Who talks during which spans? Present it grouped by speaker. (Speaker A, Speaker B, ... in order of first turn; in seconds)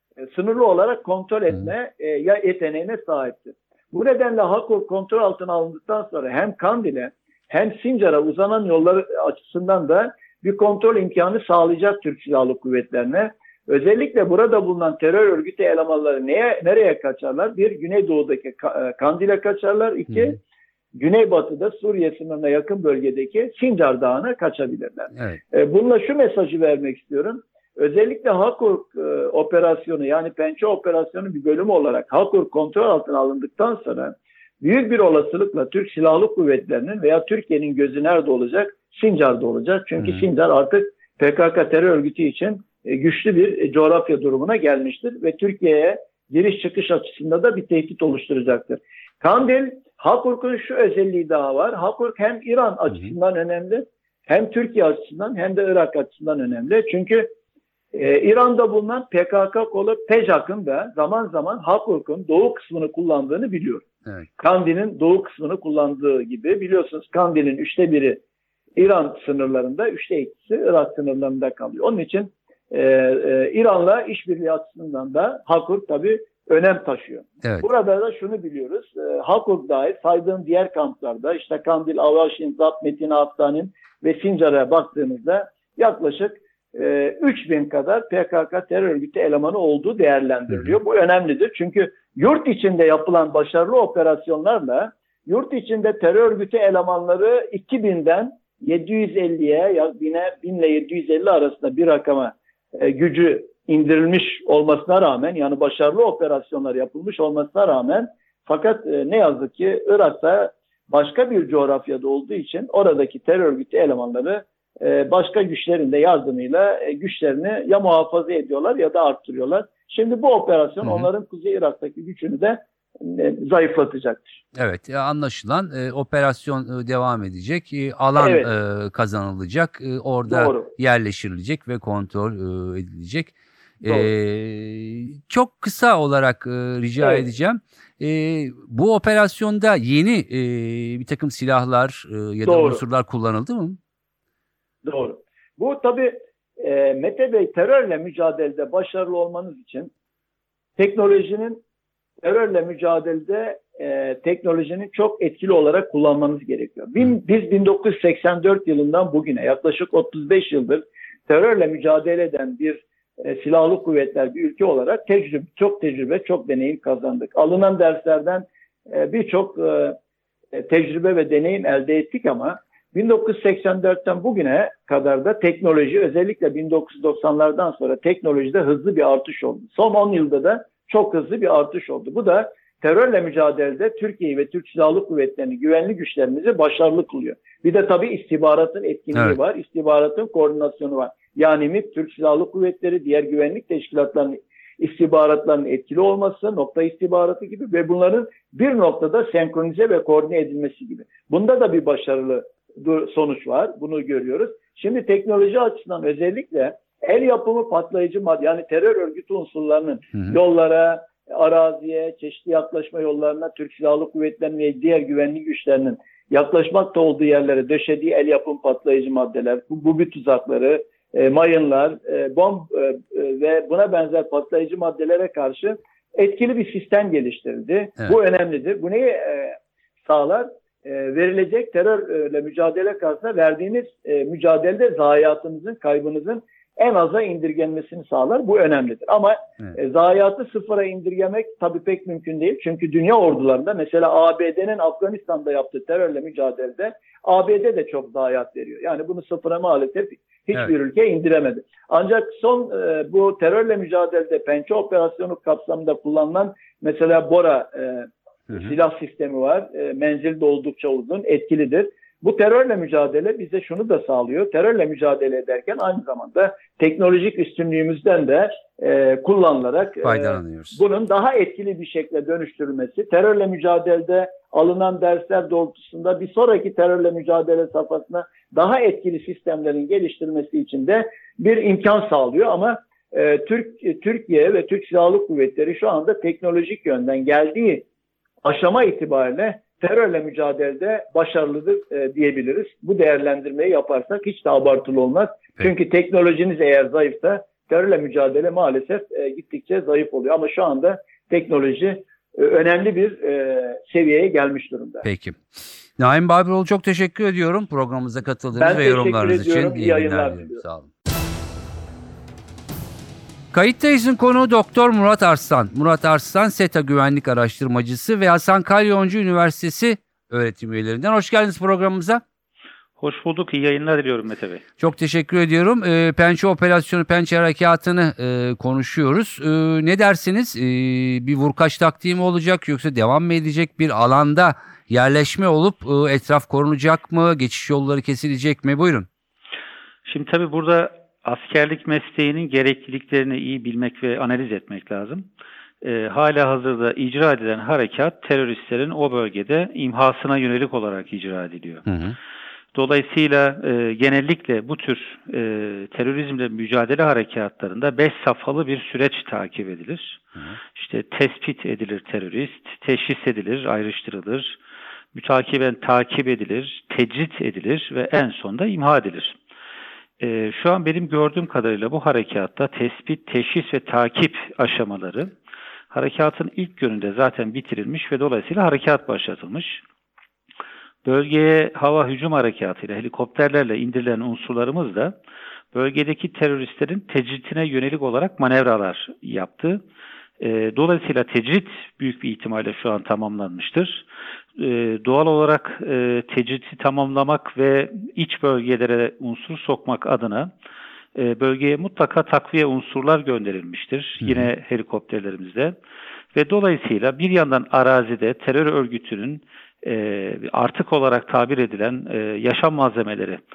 Speaker A: 0.2-20.4, 20.9-57.3, 57.9-63.9, 64.4-68.2, 68.8-124.4, 128.2-128.5, 130.3-130.7, 133.8-134.1, 142.4-142.8, 144.8-149.9, 150.8-151.6, 152.2-170.0, 170.5-287.9, 288.4-305.1, 308.6-310.6
Speaker B: 124.5-143.8, 270.0-270.8, 305.0-305.4, 306.0-310.9, 313.5-322.2, 324.8-339.1, 351.9-352.2, 404.2-404.5
Speaker C: 323.0-324.6, 340.1-345.2, 345.8-351.9, 352.7-360.2, 360.7-364.6, 365.1-369.4, 370.2-375.3, 375.9-379.8, 381.0-385.1, 385.7-389.8, 390.4-394.0, 394.6-400.5, 401.1-405.8, 406.3-413.4